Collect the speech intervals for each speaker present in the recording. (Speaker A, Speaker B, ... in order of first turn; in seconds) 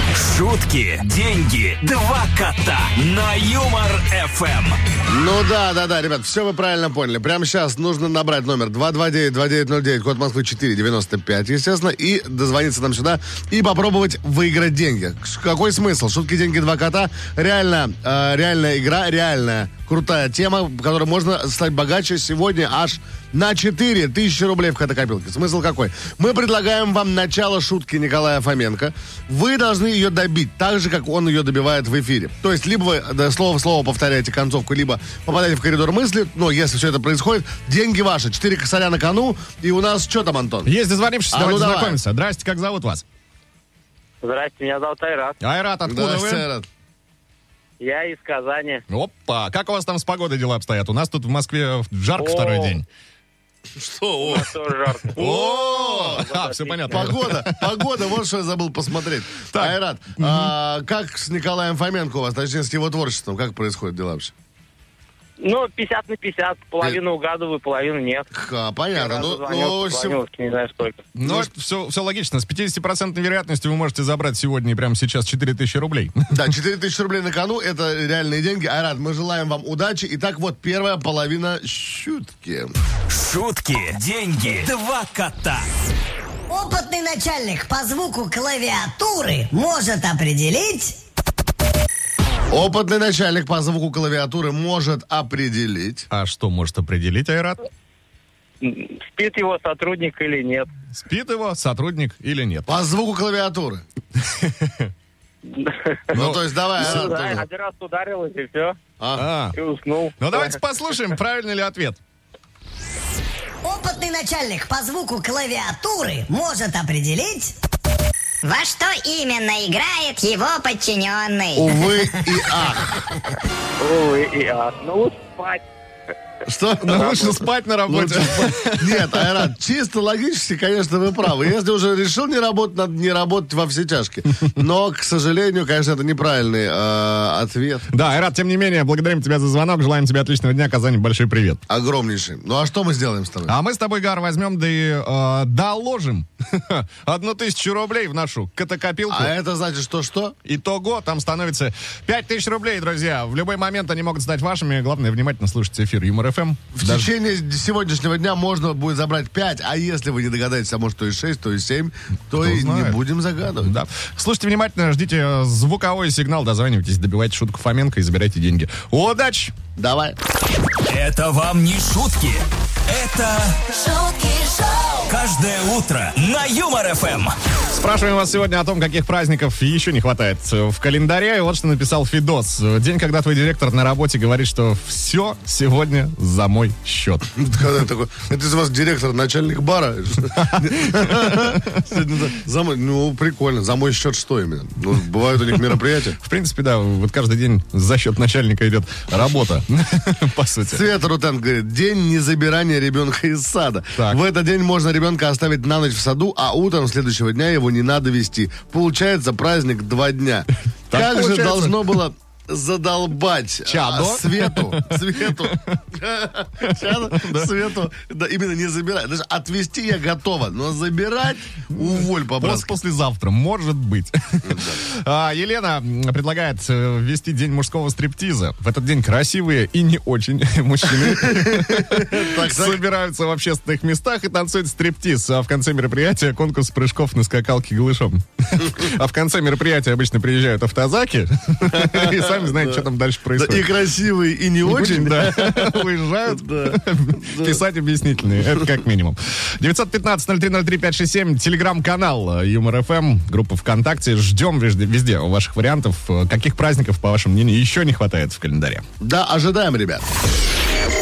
Speaker A: 0.1-4.8, 83.1-85.7, 170.9-177.4
Speaker B: 5.1-40.7, 41.3-42.0, 45.9-46.7, 53.7-54.5, 55.1-56.2, 56.9-64.3, 68.3-70.2, 71.2-71.5, 76.3-82.7, 92.5-96.1, 102.7-103.8, 106.1-107.5, 109.0-109.3, 121.5-123.2, 126.5-137.9, 141.7-143.5, 149.1-150.4, 156.7-163.7, 169.8-170.2, 187.3-196.2, 200.7-222.7, 224.4-224.8, 231.0-232.8, 241.6-247.6, 259.0-260.1
Speaker C: 40.6-43.0, 45.4-46.5, 48.9-52.9, 55.2-57.8, 59.5-60.5, 71.2-76.4, 96.1-97.6, 100.9-102.8, 104.2-104.9, 106.1-106.9, 109.2-109.6, 110.2-112.0, 126.8-129.5, 137.9-141.6, 143.5-149.3, 150.4-157.1, 162.4-163.0, 163.6-169.5, 177.7-187.3, 190.4-191.8, 196.2-200.9, 203.9-204.2, 210.9-211.9, 213.7-215.8, 216.6-217.5, 221.7-243.7, 244.6-258.9
Speaker D: 44.2-45.4, 47.8-48.8, 52.2-52.8, 54.2-55.3, 56.0-57.0, 65.4-68.3, 68.9-71.0, 98.6-100.7, 105.5-106.0, 106.8-108.8, 109.5-110.6, 123.8-125.6
Speaker E: 86.5-91.0, 113.6-117.5
Speaker F: 118.4-121.8